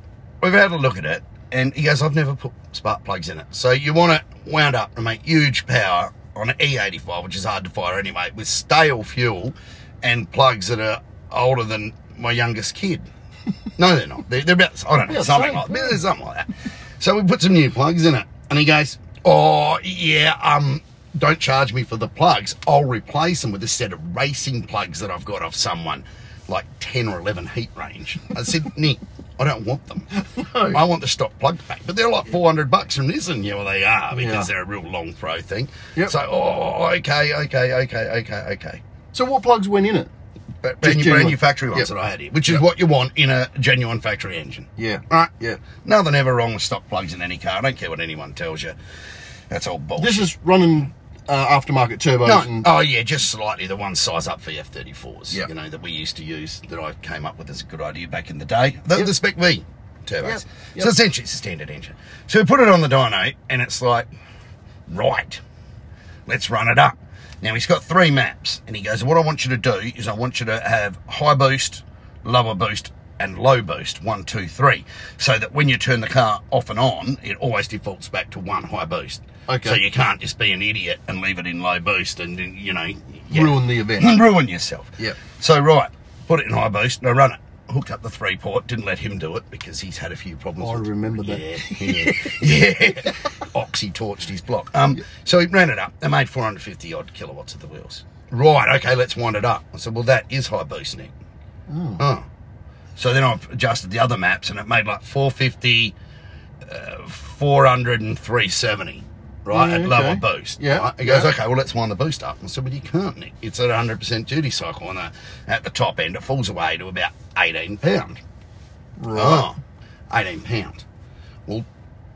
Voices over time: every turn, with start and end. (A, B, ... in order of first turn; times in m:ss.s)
0:00.4-0:13.1 A
0:13.8-0:38.8 A
0:15.1-0:16.0 B
0:30.2-0:30.8 B
0:34.1-0:34.5 B
0:39.1-0:40.1 B
0:40.6-0:48.8 A
0:40.8-0:41.9 B
0:44.8-0:45.6 B
0:49.5-0:50.3 A
0:50.0-0:52.7 B
0:52.2-1:04.1 A
1:00.2-1:00.9 B
1:04.9-1:05.4 A
1:06.3-1:41.1 A
1:19.5-1:19.8 B
1:23.3-1:24.2 B
1:30.6-1:32.4 B
1:41.7-1:42.0 B
1:42.0-1:42.2 A
1:43.0-1:45.9 A
1:46.6-1:58.2 A
1:49.5-1:51.3 B
1:59.0-1:59.5 B
1:59.1-1:59.6 A
2:00.1-2:00.8 A